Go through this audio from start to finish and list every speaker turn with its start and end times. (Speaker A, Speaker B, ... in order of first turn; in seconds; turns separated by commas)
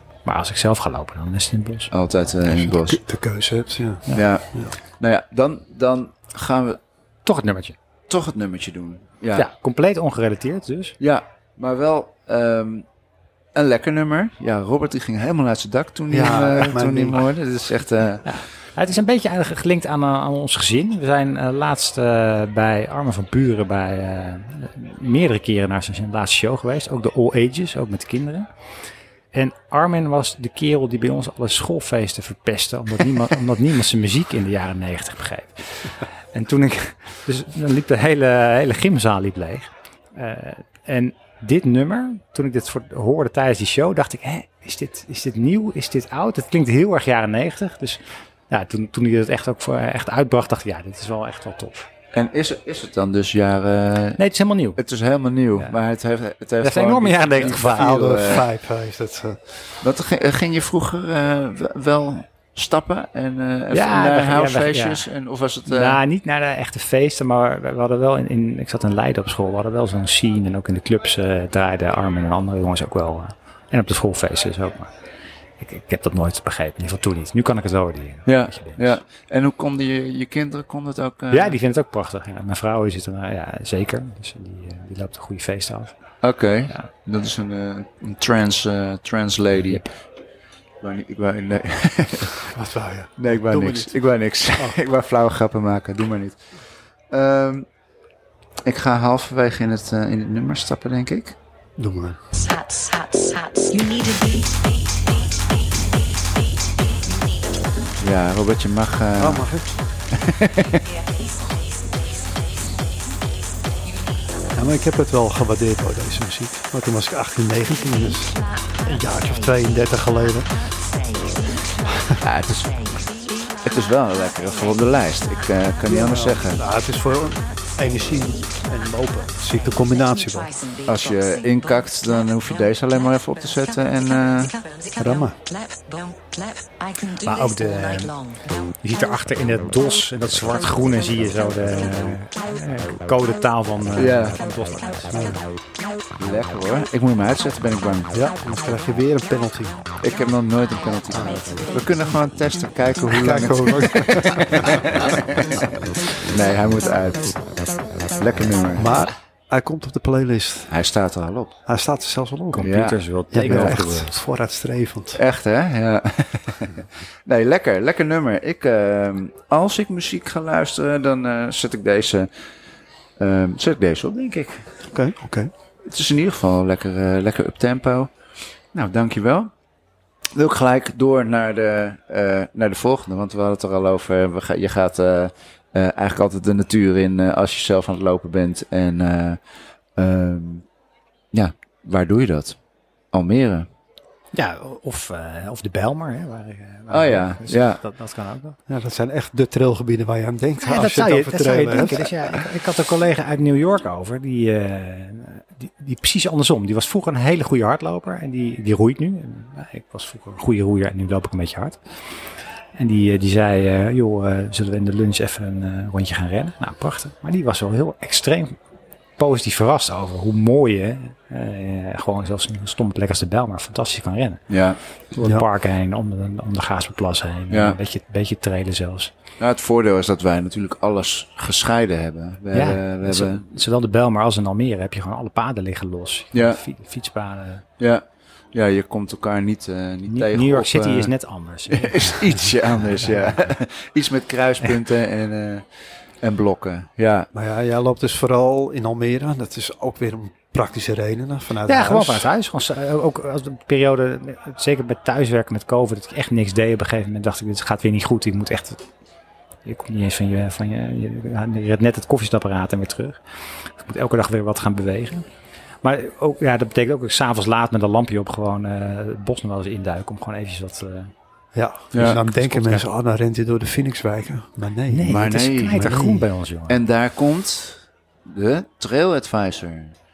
Speaker A: 0.2-1.9, Speaker B: 1.9-3.0, Speaker C: 2.5-4.7, Speaker B: 4.1-6.8, Speaker A: 7.2-7.8, Speaker B: 8.1-9.5, Speaker A: 9.3-11.0, Speaker B: 11.0-12.8, Speaker B: 13.5-18.4, Speaker C: 16.1-17.2, Speaker A: 18.2-28.5, Speaker A: 29.3-51.9, Speaker B: 52.1-54.2, Speaker A: 54.2-54.8, Speaker B: 54.8-58.5, Speaker A: 56.6-58.2, Speaker C: 57.6-59.7, Speaker B: 59.8-66.0, Speaker A: 63.7-65.1, Speaker A: 65.7-74.9, Speaker A: 75.6-79.0, Speaker B: 78.2-81.6, Speaker A: 81.3-86.0, Speaker B: 86.2-89.9, Speaker B: 90.8-92.4, Speaker C: 92.5-93.9, Speaker B: 93.2-96.4, Speaker B: 97.1-97.7, Speaker B: 98.6-101.3, Speaker C: 101.8-102.2, Speaker D: 102.3-105.0, Speaker D: 107.0-107.7, Speaker B: 108.0-109.5, Speaker C: 109.2-109.7, Speaker B: 110.1-110.8, Speaker D: 110.9-111.5, Speaker C: 114.5-120.5, Speaker D: 118.4-119.6, Speaker D: 120.7-121.6, Speaker B: 122.2-122.7, Speaker D: 122.6-123.6, Speaker B: 123.6-126.6, Speaker C: 125.8-130.5, Speaker D: 129.8-132.7, Speaker B: 130.8-134.5, Speaker D: 134.3-138.4, Speaker C: 135.0-135.4, Speaker A: 137.2-138.1, Speaker A: 138.8-145.3, Speaker B: 143.9-144.4, Speaker C: 145.1-145.4, Speaker B: 146.2-148.1, Speaker C: 148.1-149.8, Speaker B: 150.0-159.0, Speaker C: 153.1-155.1, Speaker C: 158.8-160.7, Speaker B: 160.7-161.5, Speaker C: 161.7-162.7, Speaker A: 162.5-164.2, Speaker B: 162.6-163.0, Speaker C: 163.3-165.2, Speaker B: 165.1-172.3, Speaker B: 173.2-174.7, Speaker C: 174.9-175.5, Speaker B: 175.8-178.1, Speaker B: 178.7-179.5, Speaker B: 180.3-189.4, Speaker B: 189.9-190.6, Speaker B: 191.3-192.6, Speaker B: 193.1-193.7, Speaker A: 194.3-198.6, Speaker B: 196.9-197.8, Speaker C: 198.7-202.4, Speaker A: 200.6-211.8, Speaker A: 212.7-218.6, Speaker A: 219.2-224.4, Speaker B: 224.5-224.8, Speaker A: 225.1-229.1, Speaker C: 225.2-225.4, Speaker B: 227.5-227.8, Speaker B: 229.4-233.4, Speaker A: 232.5-237.6, Speaker B: 236.3-236.6, Speaker B: 237.8-241.1, Speaker A: 240.1-242.2, Speaker B: 241.7-245.7, Speaker B: 246.2-247.3, Speaker C: 247.3-252.3, Speaker A: 251.7-258.8, Speaker A: 259.6-265.2, Speaker A: 265.8-271.1, Speaker C: 271.5-276.2, Speaker B: 271.9-272.2, Speaker A: 271.9-272.9, Speaker A: 274.9-276.8, Speaker B: 275.0-276.0, Speaker B: 276.7-279.9